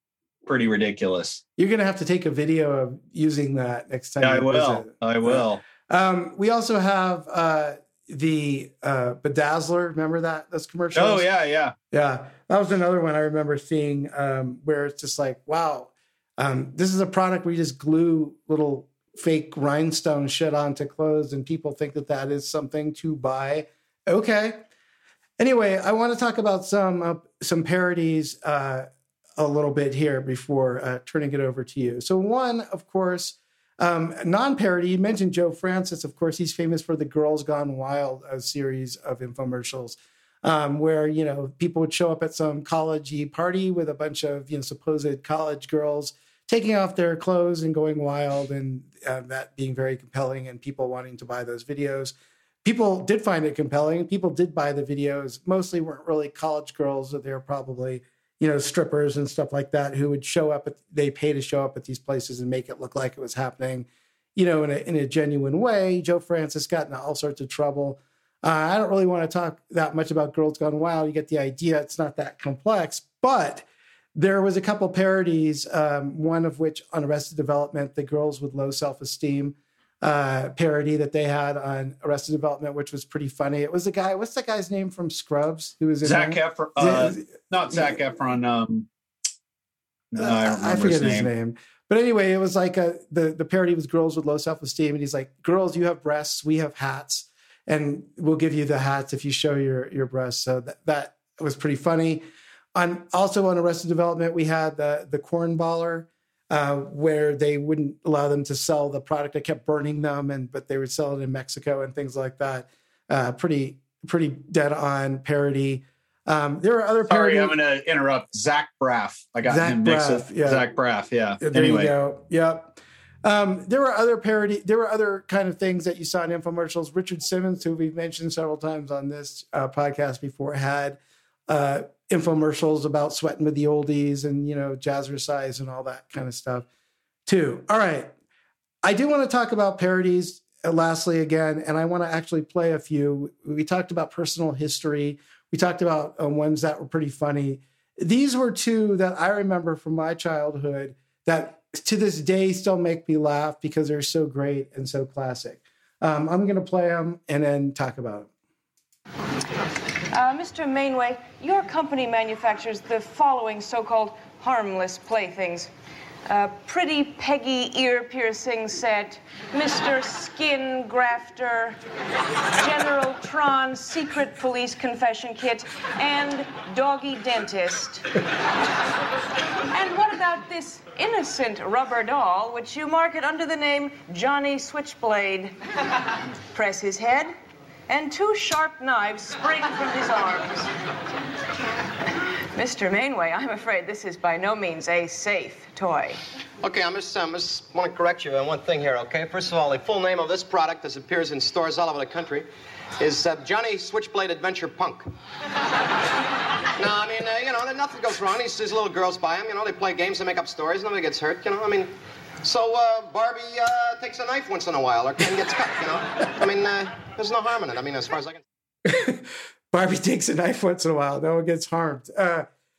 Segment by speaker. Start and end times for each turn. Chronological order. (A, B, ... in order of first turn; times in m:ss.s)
0:00.4-0:01.4 A
0:01.6-0:11.3 B
0:04.2-0:05.6 A
0:10.9-0:11.7 A
0:11.9-0:24.6 B
0:25.4-1:27.9 B
1:26.0-1:28.9 A
1:30.1-1:31.3 A
1:30.1-1:42.2 B
1:42.7-1:57.6 B
1:57.1-2:01.9 A
1:59.4-2:00.6 B
2:01.4-2:16.6 B
2:17.2-2:18.1 B
2:18.8-2:38.3 B
2:40.1-2:45.7 C
2:46.3-2:51.8 C
2:52.6-2:58.1 C
2:59.7-3:05.5 C
3:06.5-3:07.3 C
3:07.9-3:10.7 C
3:12.5-3:16.2 C
3:16.6-3:22.4 D
3:23.0-3:25.0 D
3:26.8-3:31.9 D
3:32.4-3:38.4 D
3:38.8-3:42.5 B